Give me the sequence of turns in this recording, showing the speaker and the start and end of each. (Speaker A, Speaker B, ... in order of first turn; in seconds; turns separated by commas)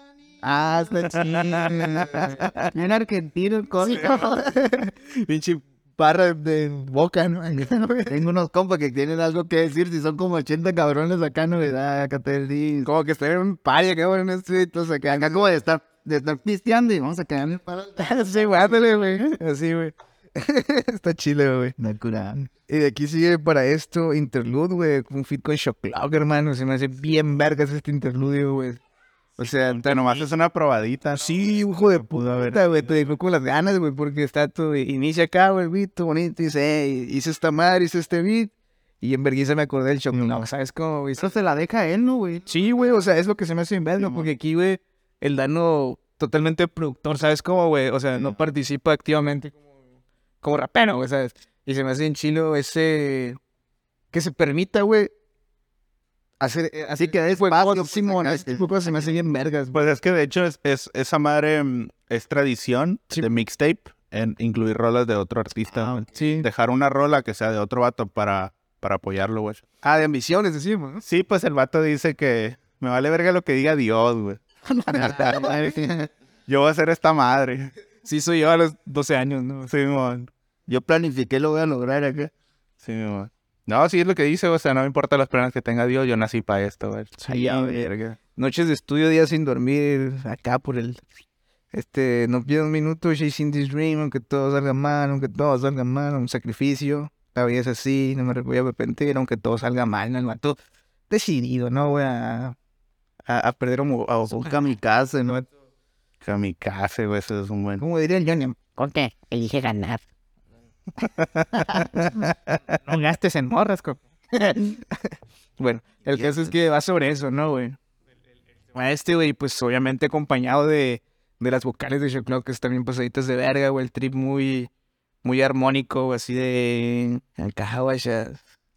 Speaker A: 0.4-2.5, Speaker B: 1.1-2.6, Speaker C: 2.7-4.4, Speaker A: 3.9-8.2, Speaker C: 8.1-12.9, Speaker A: 12.8-15.4, Speaker C: 15.1-18.6, Speaker A: 18.0-21.7, Speaker C: 21.8-22.5, Speaker A: 22.7-28.8, Speaker A: 29.4-30.2, Speaker B: 29.4-32.6, Speaker A: 31.3-41.3, Speaker C: 41.2-42.5, Speaker A: 42.5-49.6, Speaker C: 44.0-44.3, Speaker A: 50.4-53.4, Speaker A: 54.1-55.1, Speaker A: 56.4-59.7, Speaker C: 57.0-58.7, Speaker B: 59.7-69.6, Speaker C: 65.7-66.1, Speaker A: 66.1-66.5, Speaker A: 69.8-71.0, Speaker B: 71.0-74.4, Speaker A: 74.7-75.5, Speaker C: 74.9-76.1, Speaker B: 75.0-75.5, Speaker B: 76.5-77.7, Speaker A: 78.0-79.7, Speaker B: 79.7-80.3, Speaker C: 80.7-82.3, Speaker B: 82.8-87.5, Speaker A: 87.3-87.7, Speaker C: 87.3-88.1, Speaker A: 88.3-91.0, Speaker A: 91.7-100.6, Speaker A: 101.1-102.5, Speaker A: 103.2-104.5, Speaker C: 104.3-105.4, Speaker B: 106.2-107.8, Speaker A: 107.8-110.0, Speaker B: 111.0-112.1, Speaker A: 111.7-117.8, Speaker C: 116.1-116.5, Speaker A: 118.7-124.7, Speaker A: 125.2-128.4